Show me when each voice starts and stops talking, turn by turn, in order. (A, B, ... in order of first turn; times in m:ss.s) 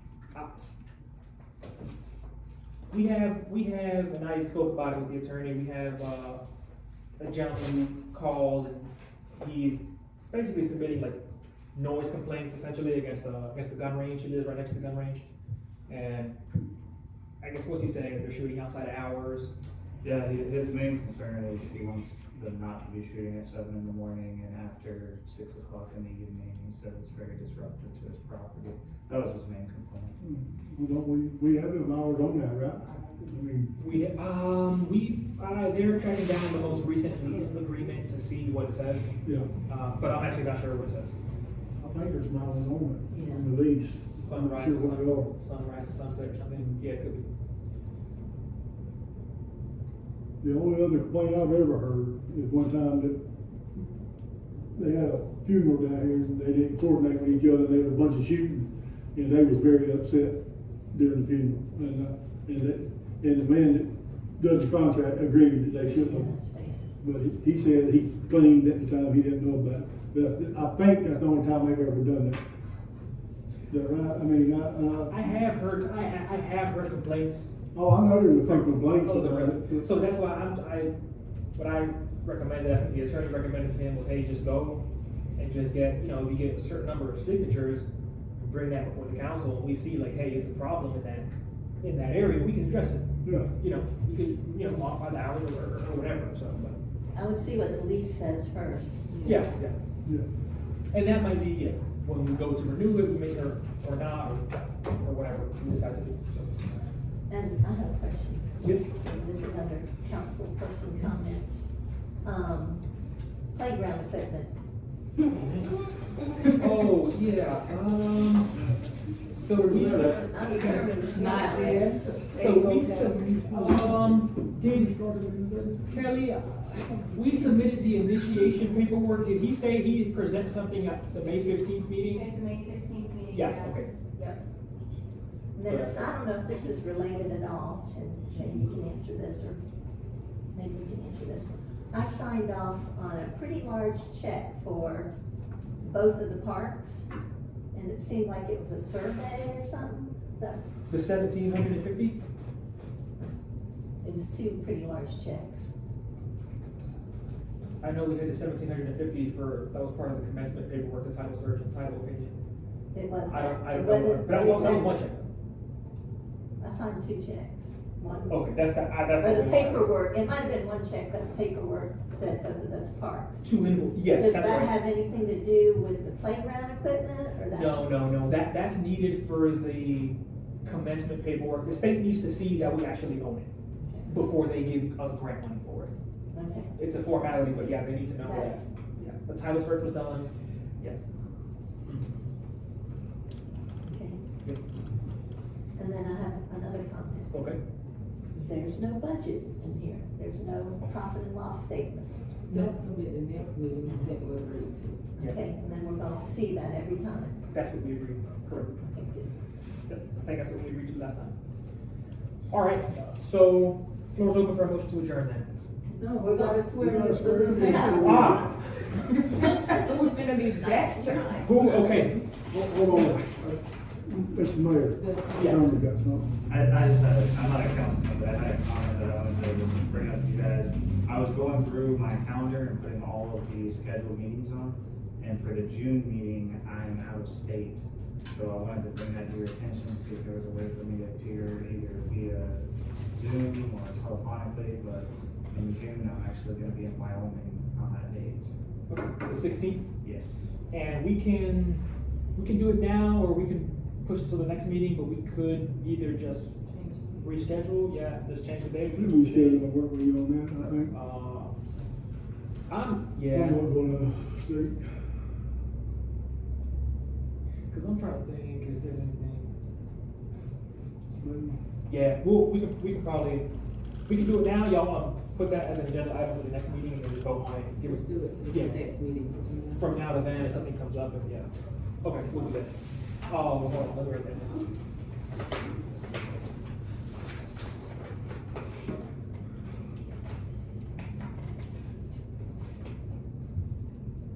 0:00.3-0:00.8 A
0:02.9-0:06.4 A
0:07.2-0:11.2 A
0:11.8-0:15.3 A
0:15.9-0:16.4 A
0:17.4-0:19.5 A
0:20.0-0:30.2 B
0:30.2-0:33.7 C
0:33.8-0:39.1 A
0:39.2-0:39.5 C
0:39.7-0:41.2 A
0:41.8-0:45.3 C
0:43.1-0:43.5 D
0:44.2-0:47.2 A
0:50.4-0:53.2 C
0:54.7-1:00.4 C
1:00.9-1:06.3 C
1:05.8-1:06.9 D
1:07.0-1:12.4 C
1:13.7-1:15.2 C
1:15.1-1:17.6 A
1:17.7-1:19.8 C
1:18.4-1:20.9 A
1:21.6-1:24.8 A
1:25.4-1:27.9 A
1:28.4-1:31.3 A
1:31.8-1:36.8 A
1:33.2-1:33.5 C
1:37.1-1:39.1 D
1:39.1-1:39.4 E
1:39.2-1:39.8 A
1:40.9-1:46.5 A
1:47.3-1:51.7 D
1:52.2-1:52.9 D
1:53.5-1:54.5 D
1:55.3-1:55.8 A
1:56.4-1:58.6 A
1:59.3-2:00.8 A
1:59.7-2:00.4 C
1:59.7-2:02.2 D
2:01.0-2:03.2 E
2:02.2-2:05.0 A
2:03.5-2:05.9 C
2:05.9-2:12.3 A
2:13.3-2:13.9 A
2:15.6-2:19.6 D
2:15.7-2:16.1 A
2:20.5-2:25.1 D
2:25.8-2:27.1 D
2:27.7-2:30.6 D
2:30.9-2:32.2 A
2:34.0-2:35.7 D
2:37.8-2:42.4 A
2:42.9-2:45.0 D
2:43.3-2:45.2 A
2:46.6-2:48.5 D
2:48.3-2:50.0 A
2:49.2-2:53.5 D
2:53.4-2:54.8 A
2:54.1-2:57.8 D
2:57.4-3:03.5 A
3:03.8-3:04.2 D
3:04.1-3:05.9 A
3:06.3-3:06.7 D
3:06.8-3:11.0 A
3:08.2-3:08.7 D
3:13.9-3:14.2 D
3:15.8-3:17.4 D
3:17.3-3:17.6 A
3:18.4-3:22.7 D
3:22.5-3:25.0 E
3:25.2-3:27.4 D
3:27.5-3:28.8 A
3:28.8-3:29.3 D
3:29.9-3:31.4 A
3:32.5-3:35.5 A
3:36.0-3:38.4 E
3:36.1-3:36.8 D
3:36.8-3:38.6 C
3:37.5-3:38.4 D
3:37.9-3:38.5 A
3:39.1-3:41.3 E
3:39.4-3:39.8 D
3:40.6-3:41.4 D
3:41.0-3:42.2 A
3:42.4-3:46.3 C
3:45.0-3:45.5 E
3:45.4-3:45.6 A
3:46.5-4:08.5 B
4:08.9-4:09.8 A
4:10.0-4:10.5 B
4:10.7-4:11.8 A
4:12.4-4:16.6 A
4:16.7-4:17.2 E
4:17.2-4:19.7 A
4:18.9-4:20.9 C
4:20.9-4:21.6 A
4:22.7-4:23.6 A
4:23.3-4:25.2 C
4:27.7-4:29.5 A
4:31.2-4:31.6 C
4:31.9-4:33.5 A
4:34.1-4:38.9 A
4:37.8-4:40.0 E
4:39.7-4:41.5 A
4:42.0-4:42.7 A
4:43.3-4:44.6 A